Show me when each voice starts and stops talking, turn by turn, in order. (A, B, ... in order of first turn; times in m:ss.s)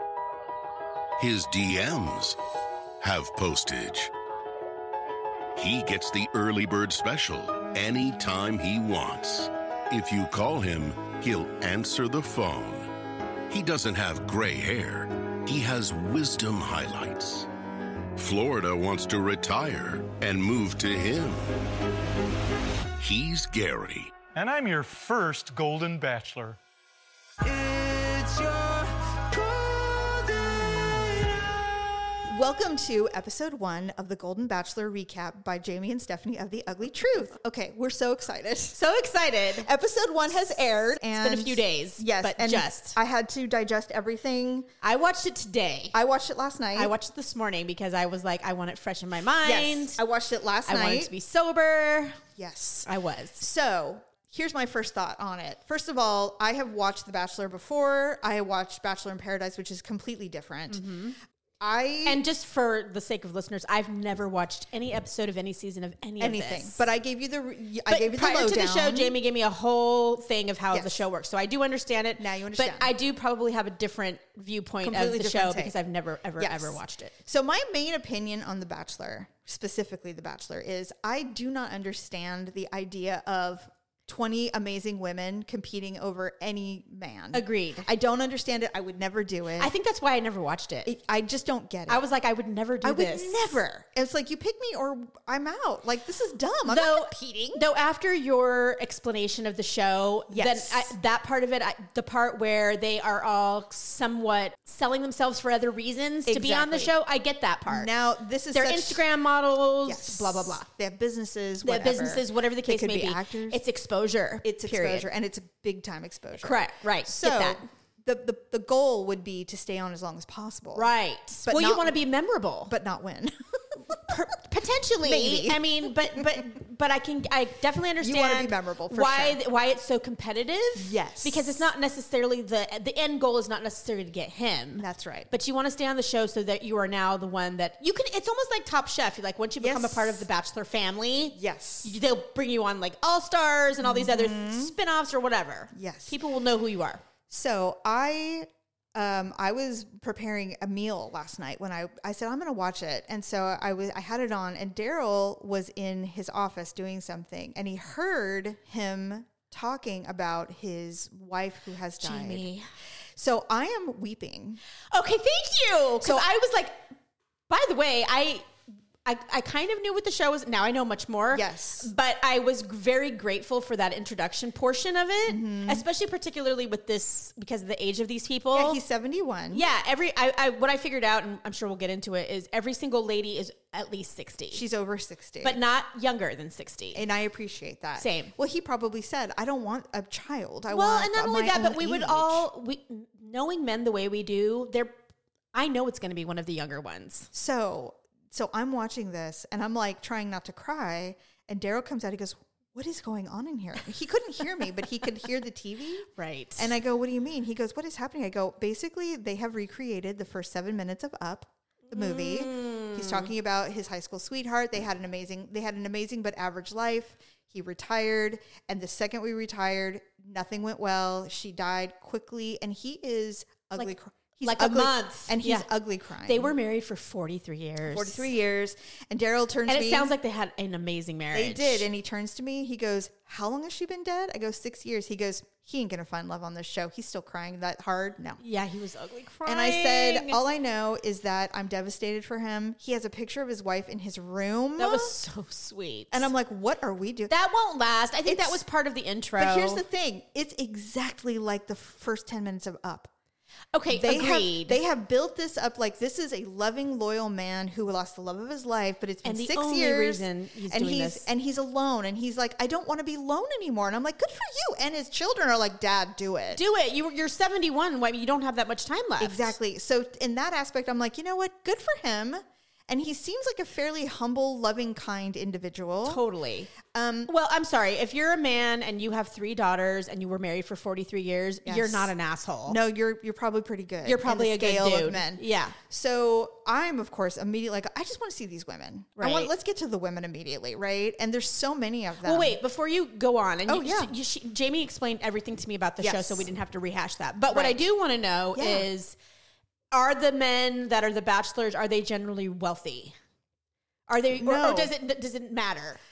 0:01.2-0:02.4 A
0:03.0-0:04.1 A
0:05.6-0:12.9 A
0:13.5-0:17.5 A
0:18.2-0:21.5 A
0:23.0-0:24.1 A
0:24.3-0:26.6 B
0:27.4-0:31.4 B
0:32.3-0:38.8 C
0:38.7-0:39.7 D
0:39.6-0:44.7 C
0:41.2-0:43.0 D
0:44.8-0:46.0 D
0:45.9-0:46.9 C
0:46.7-0:50.0 D
0:49.4-0:51.1 C
0:50.6-0:52.2 D
0:52.4-1:00.8 C
0:52.8-0:53.4 D
1:00.7-1:01.2 D
1:01.6-1:02.2 C
1:02.0-1:06.8 D
1:06.2-1:09.2 C
1:07.9-1:17.1 D
1:10.7-1:11.0 C
1:12.2-1:12.9 C
1:14.8-1:15.7 C
1:16.4-1:29.7 C
1:27.3-1:27.8 D
1:29.6-1:30.9 D
1:30.8-1:32.0 C
1:31.9-1:33.6 D
1:32.8-1:37.6 C
1:36.6-1:47.9 D
1:40.3-1:40.9 C
1:46.3-1:46.9 C
1:47.7-1:49.0 C
1:48.5-1:50.7 D
1:49.8-1:53.6 C
1:51.6-1:55.1 D
1:54.4-2:00.9 C
1:56.4-1:57.6 D
2:00.7-2:02.7 D
2:01.4-2:02.0 C
2:02.7-2:04.1 C
2:04.0-2:27.0 D
2:05.0-2:06.4 C
2:08.0-2:09.4 C
2:10.8-2:11.6 C
2:14.8-2:15.3 C
2:19.6-2:20.2 C
2:21.3-2:21.9 C
2:23.8-2:24.7 C
2:25.7-2:26.2 C
2:27.3-2:42.4 C
2:42.0-2:42.7 D
2:43.1-2:44.6 C
2:44.9-2:46.8 D
2:46.0-2:46.2 C
2:47.5-2:48.5 D
2:49.0-2:58.8 D
2:51.3-2:51.9 C
2:55.3-2:55.8 C
2:58.5-2:59.6 C
2:59.5-3:04.6 D
3:04.5-3:05.6 C
3:05.4-3:07.0 D
3:06.9-3:12.5 C
3:08.0-3:08.3 D
3:10.7-3:14.9 D
3:15.5-3:17.3 D
3:17.3-3:46.5 C
3:26.2-3:26.7 D
3:31.9-3:33.3 D
3:43.8-3:45.7 D
3:46.2-3:48.2 D
3:47.9-3:50.1 C
3:49.7-3:51.9 D
3:51.3-3:58.4 C
3:58.4-4:00.4 D
3:59.4-4:05.1 C
4:04.8-4:06.3 D
4:06.1-4:07.3 C
4:07.3-4:09.8 D
4:08.2-4:08.6 C
4:09.4-4:13.1 C
4:13.7-4:14.8 D
4:13.9-4:26.6 C
4:19.2-4:21.3 D
4:26.5-4:29.5 D
4:29.2-4:36.2 C
4:36.0-4:36.7 D
4:36.9-4:37.3 C
4:37.3-4:42.8 D
4:41.6-4:42.1 C
4:42.6-4:52.6 C
4:44.0-4:45.8 D
4:49.2-4:49.5 D
4:52.2-4:59.2 D
4:53.7-4:54.1 C
4:56.0-4:56.5 C
4:57.5-4:57.8 C
4:58.5-4:58.9 C
4:59.9-5:03.2 D
5:04.1-5:06.0 D
5:04.4-5:04.9 C